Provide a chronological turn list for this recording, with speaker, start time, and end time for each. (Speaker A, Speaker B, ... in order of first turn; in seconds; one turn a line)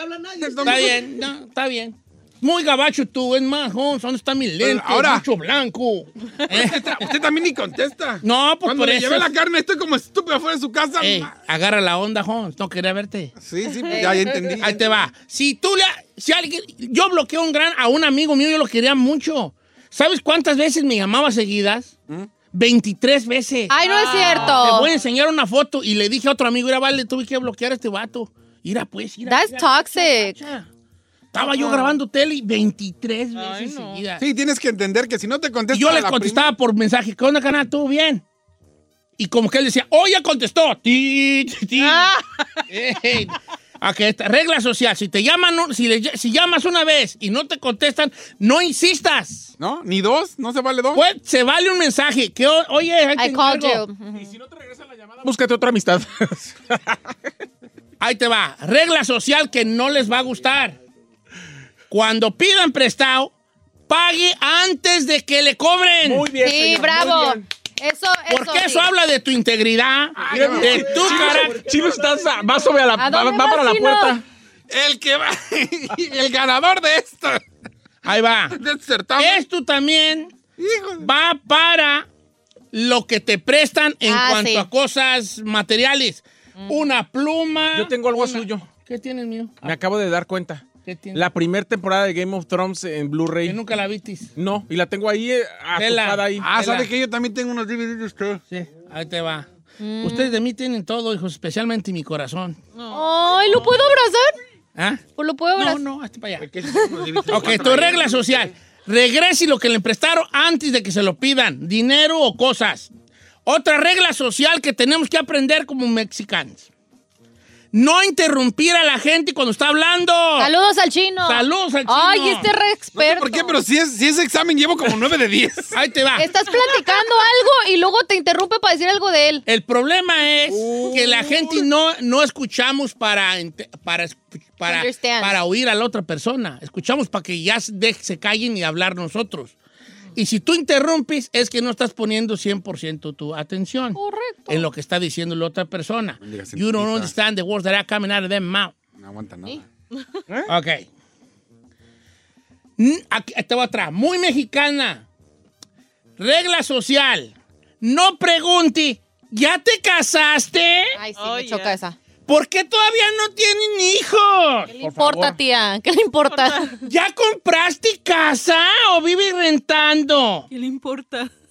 Speaker A: 0.3-1.1
Speaker B: 0.6-7.1
Speaker A: 4.6-5.3
Speaker A: 6.5-11.3
Speaker B: 8.2-9.3
Speaker B: 11.0-13.3
Speaker A: 13.4-14.9
Speaker C: 13.9-14.5
Speaker B: 14.6-21.9
Speaker B: 22.5-30.7
Speaker C: 23.7-24.9
Speaker D: 23.8-24.7
Speaker C: 29.2-30.4
Speaker B: 31.3-34.2
Speaker D: 33.4-34.0
Speaker A: 34.2-36.5
Speaker B: 35.7-38.2
Speaker B: 39.2-42.1
Speaker D: 41.8-42.5
Speaker B: 42.7-49.5
Speaker A: 49.6-51.0
Speaker B: 50.9-53.8
Speaker C: 53.2-54.3
Speaker E: 54.1-57.0
Speaker B: 58.0-60.8
Speaker B: 61.9-63.3
Speaker B: 63.9-66.3
Speaker E: 66.0-67.5
Speaker C: 66.4-68.9
Speaker B: 68.3-71.6
Speaker A: 70.2-71.5
Speaker E: 70.3-74.2
Speaker C: 73.0-74.2
Speaker A: 74.7-77.4
Speaker B: 78.0-78.6
Speaker A: 78.5-79.4
Speaker B: 79.2-80.3
Speaker A: 80.6-81.1
Speaker B: 81.0-82.1
Speaker B: 82.7-89.8
Speaker C: 84.1-84.7
Speaker E: 87.7-88.7
Speaker E: 89.6-93.6
Speaker B: 90.8-91.2
Speaker B: 93.4-94.3
Speaker E: 94.4-96.9
Speaker B: 95.8-96.3
Speaker A: 96.4-98.4
Speaker B: 98.5-99.5
Speaker C: 99.8-100.4
Speaker B: 100.0-102.6
Speaker D: 102.8-103.9
Speaker C: 102.9-104.3
Speaker B: 104.8-106.5
Speaker C: 105.2-105.8
Speaker A: 106.4-108.5
Speaker C: 106.7-107.0
Speaker B: 107.3-112.9
Speaker B: 113.5-116.7
Speaker B: 117.7-120.5
Speaker C: 120.4-123.6
Speaker B: 121.2-122.5
Speaker A: 123.0-125.8
Speaker B: 125.7-126.3
Speaker C: 126.2-129.4
Speaker B: 129.5-139.6
Speaker A: 130.5-131.6
Speaker C: 134.6-135.4
Speaker B: 140.2-148.8
Speaker C: 143.9-144.7
Speaker A: 146.2-147.1
Speaker A: 149.0-149.7
Speaker B: 150.5-150.9
Speaker B: 152.8-155.1
Speaker B: 156.2-161.0
Speaker C: 160.9-162.0
Speaker D: 161.2-161.8
Speaker B: 162.3-164.7
Speaker C: 164.7-166.8
Speaker E: 164.8-165.4
Speaker D: 166.3-166.8
Speaker B: 166.8-170.5
Speaker D: 170.5-171.3